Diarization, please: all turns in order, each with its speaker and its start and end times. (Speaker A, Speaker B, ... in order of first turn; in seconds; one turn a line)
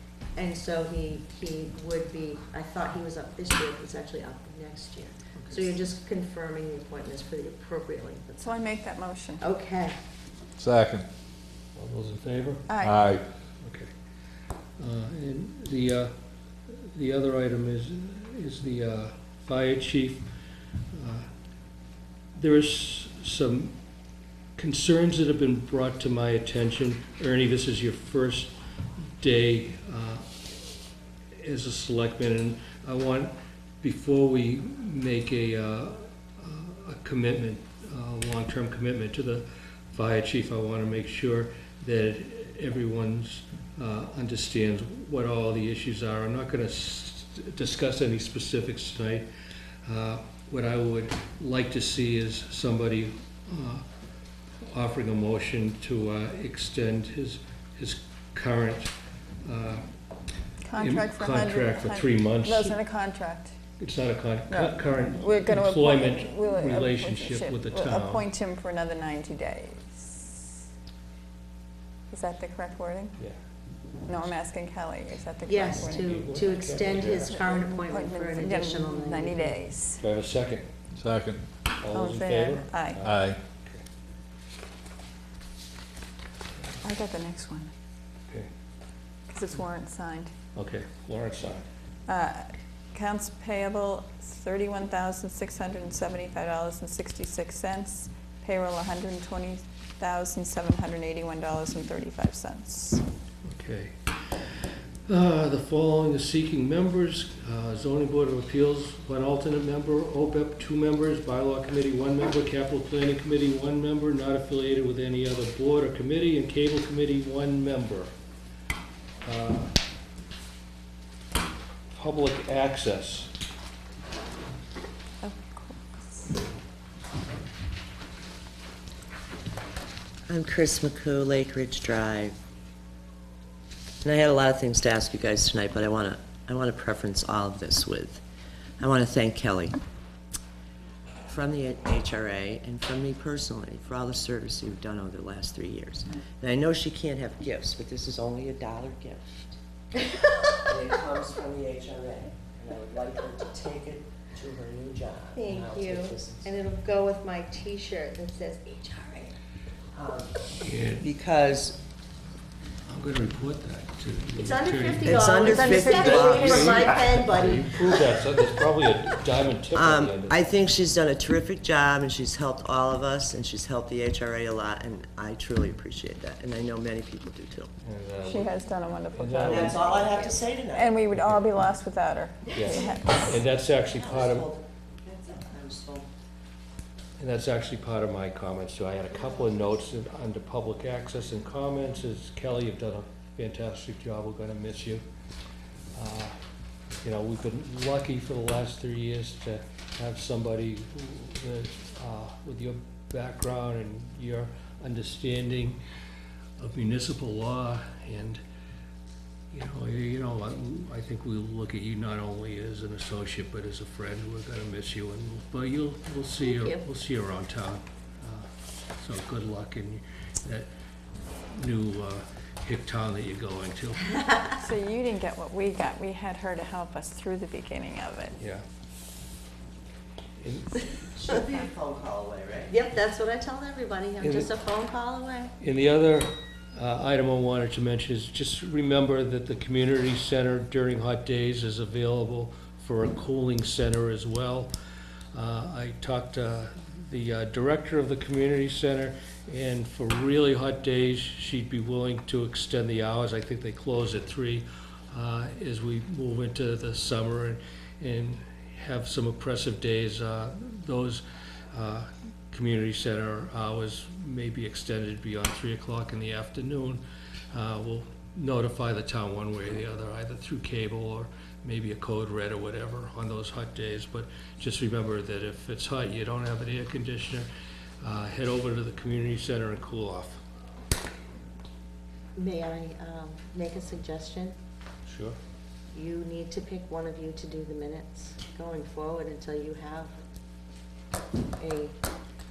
Speaker A: 0.3-8.6
Speaker B: 5.4-5.7
Speaker C: 8.4-9.4
Speaker A: 9.4-9.9
Speaker D: 10.6-11.1
Speaker B: 11.8-12.7
Speaker C: 12.7-13.0
Speaker D: 12.8-13.2
Speaker B: 13.6-13.9
Speaker B: 14.8-16.1
Speaker B: 16.7-20.3
Speaker B: 20.9-21.3
Speaker B: 22.4-23.8
Speaker B: 24.6-28.5
Speaker B: 29.2-30.3
Speaker B: 31.4-49.3
Speaker B: 49.9-53.9
Speaker B: 54.7-58.9
Speaker B: 59.5-59.9
Speaker C: 60.6-63.5
Speaker B: 60.8-62.8
Speaker B: 63.8-68.3
Speaker C: 64.5-70.6
Speaker C: 72.1-73.2
Speaker C: 74.1-80.0
Speaker A: 75.5-79.6
Speaker B: 75.7-77.3
Speaker B: 80.0-80.7
Speaker D: 81.0-81.5
Speaker B: 81.8-83.8
Speaker C: 81.9-83.1
Speaker D: 83.0-83.4
Speaker C: 86.8-87.7
Speaker C: 89.3-90.3
Speaker B: 90.5-91.7
Speaker C: 92.1-103.0
Speaker B: 103.5-118.1
Speaker B: 119.2-119.7
Speaker B: 121.9-123.3
Speaker C: 125.2-126.4
Speaker E: 130.3-132.4
Speaker E: 134.0-138.2
Speaker E: 138.8-139.8
Speaker E: 141.3-149.6
Speaker E: 150.6-156.6
Speaker A: 155.3-159.3
Speaker E: 159.9-160.4
Speaker B: 160.6-161.1
Speaker E: 161.0-161.8
Speaker B: 162.9-170.4
Speaker A: 164.4-167.9
Speaker E: 165.1-167.2
Speaker C: 165.2-166.6
Speaker E: 169.7-177.7
Speaker B: 177.8-178.6
Speaker C: 178.2-183.4
Speaker B: 179.1-179.8
Speaker E: 179.4-181.0
Speaker B: 182.5-184.5
Speaker E: 183.8-186.1
Speaker B: 187.2-195.0
Speaker B: 195.9-196.3
Speaker B: 197.0-205.8
Speaker B: 206.6-208.4
Speaker B: 209.5-220.7
Speaker A: 216.4-216.8
Speaker B: 221.5-224.4
Speaker C: 224.6-228.4
Speaker B: 228.4-228.6
Speaker B: 230.4-230.9
Speaker E: 231.2-232.7
Speaker A: 232.7-235.5
Speaker B: 234.2-234.5
Speaker B: 235.6-244.7
Speaker B: 245.3-277.5
Speaker B: 278.0-280.4
Speaker A: 282.4-284.6
Speaker B: 285.1-285.4
Speaker A: 285.9-290.1
Speaker A: 291.6-291.9